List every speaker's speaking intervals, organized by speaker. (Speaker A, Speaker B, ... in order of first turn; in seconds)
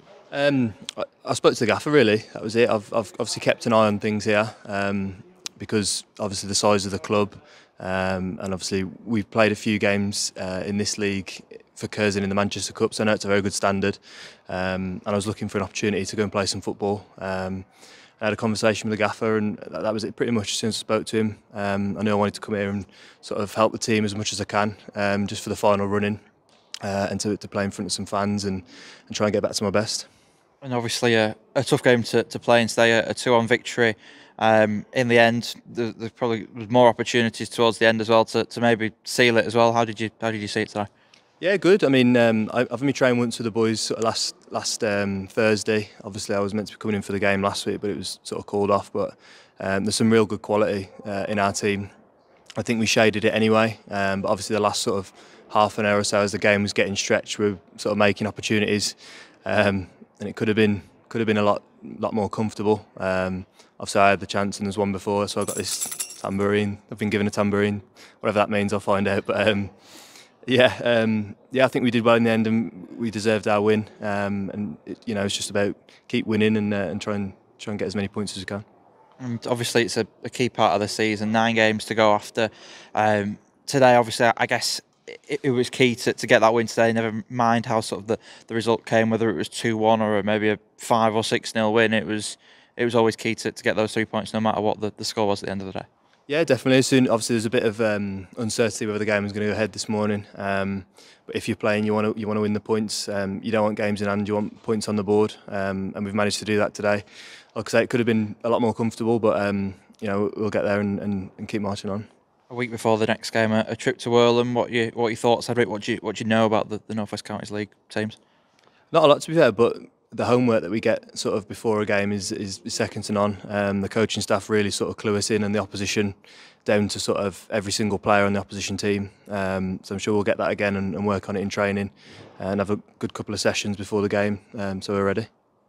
Speaker A: 0.3-17.6, 18.2-26.2, 26.8-30.1, 41.4-51.9, 52.6-69.7, 70.5-78.6, 96.3-107.0, 107.5-112.0, 118.9-135.3
Speaker B: 30.6-40.9, 79.2-95.9, 112.5-118.2